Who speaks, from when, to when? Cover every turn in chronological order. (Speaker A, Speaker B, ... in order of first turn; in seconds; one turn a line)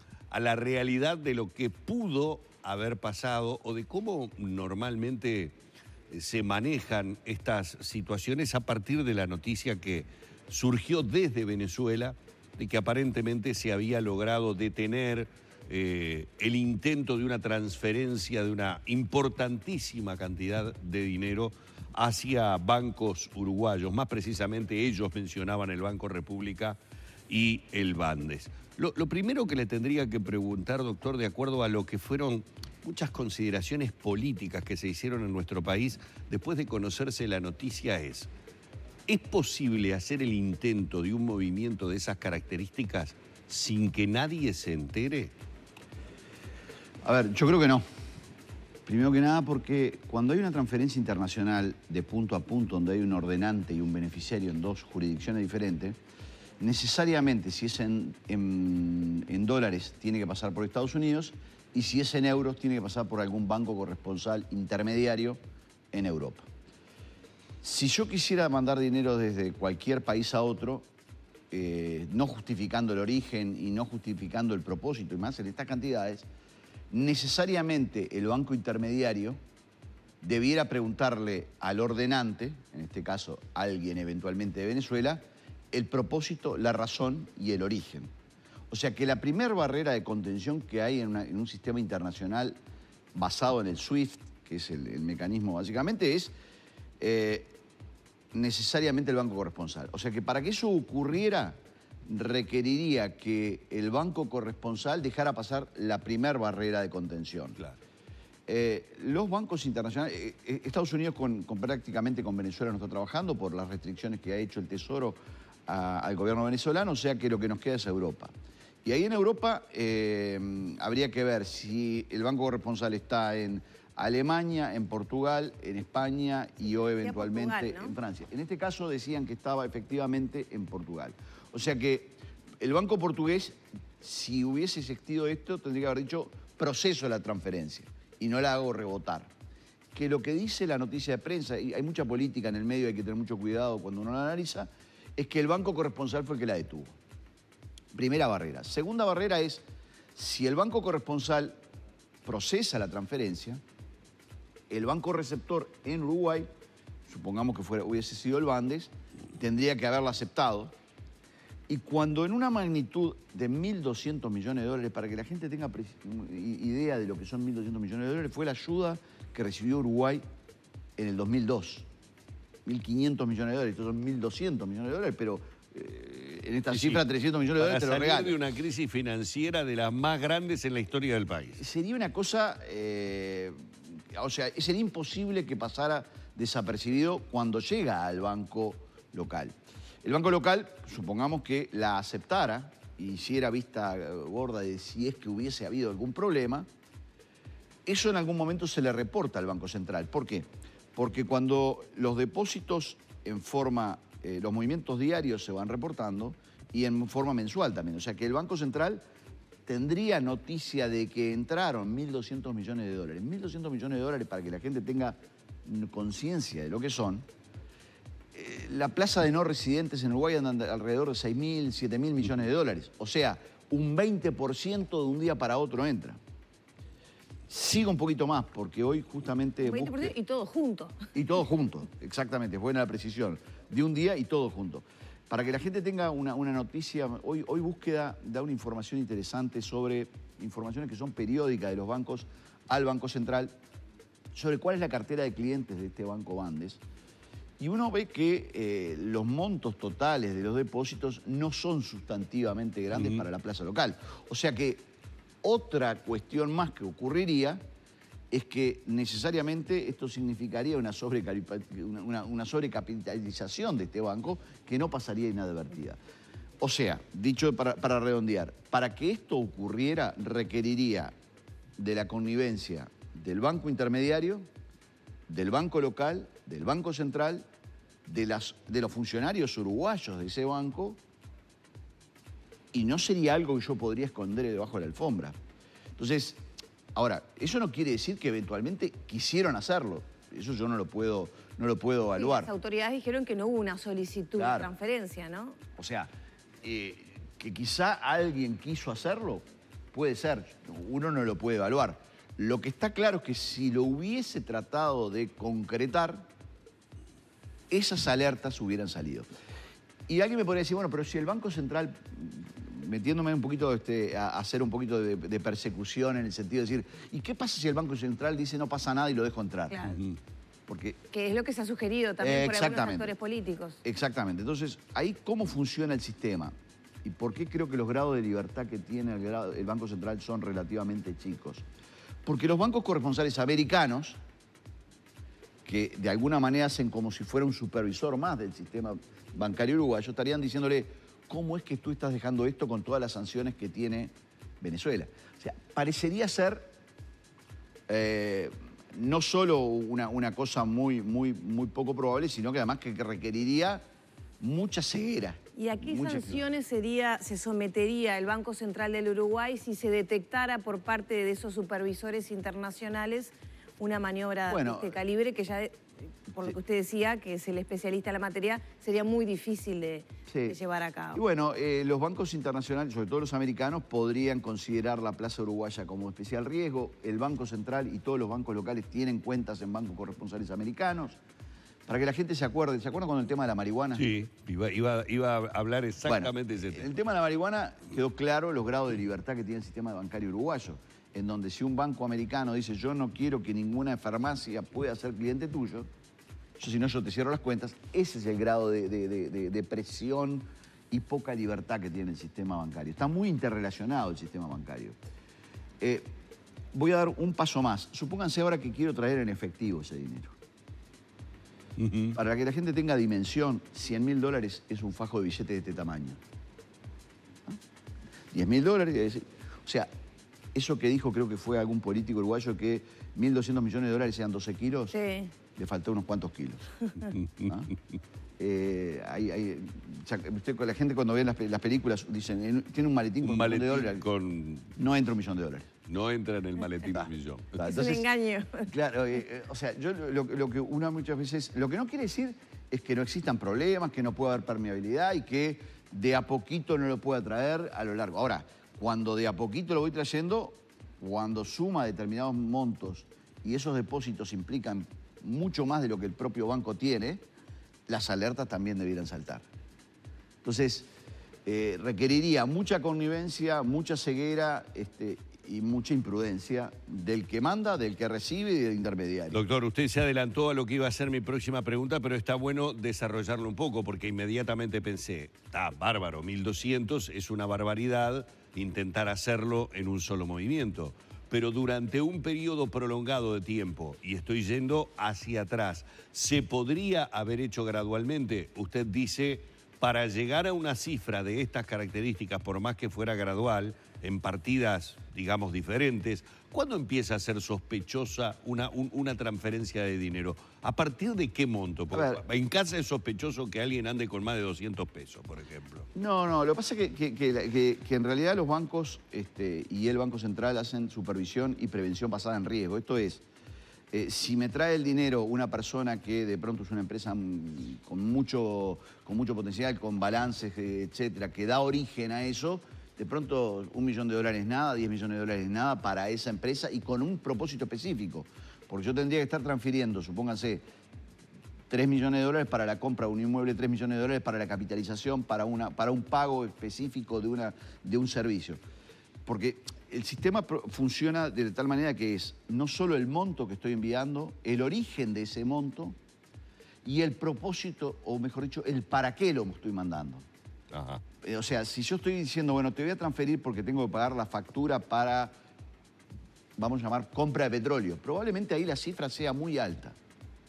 Speaker A: 0.3-5.5
Speaker A: 6.1-38.3
Speaker A: 39.1-45.3
Speaker B: 47.0-47.8
Speaker B: 48.9-56.0
Speaker B: 56.6-65.4
Speaker B: 65.9-66.5
Speaker B: 67.6-70.9
Speaker B: 71.5-76.3
Speaker B: 76.9-79.4
Speaker B: 80.2-88.1
Speaker B: 88.7-92.6
Speaker B: 93.1-96.3
Speaker B: 97.0-97.5
Speaker B: 98.3-107.6
Speaker B: 108.5-118.3
Speaker B: 118.8-139.3
Speaker C: 127.0-127.9
Speaker B: 139.9-146.9
Speaker B: 147.9-149.6
Speaker B: 150.1-151.6
Speaker B: 152.2-153.6
Speaker B: 154.7-156.5
Speaker B: 157.1-160.7
Speaker B: 161.7-170.2
Speaker B: 171.0-171.9
Speaker B: 172.7-178.4
Speaker A: 176.7-177.0
Speaker A: 177.6-181.6
Speaker B: 181.6-183.6
Speaker B: 184.1-196.7
Speaker B: 197.8-209.0
Speaker B: 209.7-217.3
Speaker B: 218.3-226.2
Speaker B: 227.5-230.1
Speaker C: 229.6-231.1
Speaker B: 231.1-243.5
Speaker B: 244.3-246.8
Speaker B: 247.6-254.9
Speaker A: 253.0-253.2
Speaker B: 255.4-257.6
Speaker B: 258.3-266.0
Speaker B: 266.6-271.1
Speaker B: 271.8-274.4
Speaker B: 275.3-277.4
Speaker B: 278.1-281.0
Speaker B: 282.7-285.3
Speaker B: 286.0-292.5
Speaker C: 292.2-295.6
Speaker B: 294.4-294.7
Speaker B: 295.8-296.1
Speaker B: 296.6-306.3
Speaker B: 307.7-309.3
Speaker B: 310.1-319.9
Speaker C: 319.7-320.0
Speaker A: 319.9-320.2
Speaker B: 320.7-321.0
Speaker C: 321.1-323.8
Speaker B: 322.2-323.1
Speaker B: 323.8-331.6
Speaker B: 332.2-334.2
Speaker B: 335.6-346.7
Speaker B: 347.9-353.8
Speaker B: 354.4-356.4
Speaker C: 355.6-371.2
Speaker B: 364.5-365.0
Speaker B: 370.3-370.6
Speaker B: 371.1-381.2
Speaker B: 381.9-384.1
Speaker A: 383.9-386.9
Speaker B: 386.1-395.9
Speaker B: 396.6-405.0
Speaker B: 405.8-406.1
Speaker B: 406.7-410.4
Speaker A: 411.8-412.1
Speaker B: 412.1-416.2
Speaker B: 418.3-419.9
Speaker B: 420.5-424.9
Speaker C: 424.9-425.3
Speaker B: 425.5-426.7
Speaker A: 427.1-427.5
Speaker B: 427.4-427.7
Speaker B: 428.4-434.1
Speaker A: 433.2-434.7
Speaker B: 434.8-435.7
Speaker A: 435.9-437.6
Speaker B: 437.5-438.0
Speaker C: 437.6-438.7
Speaker B: 438.6-457.2
Speaker B: 457.9-459.4
Speaker B: 460.4-460.9
Speaker B: 461.4-469.4
Speaker A: 469.3-505.9
Speaker B: 501.9-502.2
Speaker B: 505.9-513.2
Speaker B: 513.9-530.6
Speaker B: 531.7-538.6
Speaker B: 539.2-546.0
Speaker B: 546.8-550.2
Speaker A: 550.7-551.0
Speaker B: 551.2-555.3
Speaker B: 556.6-560.0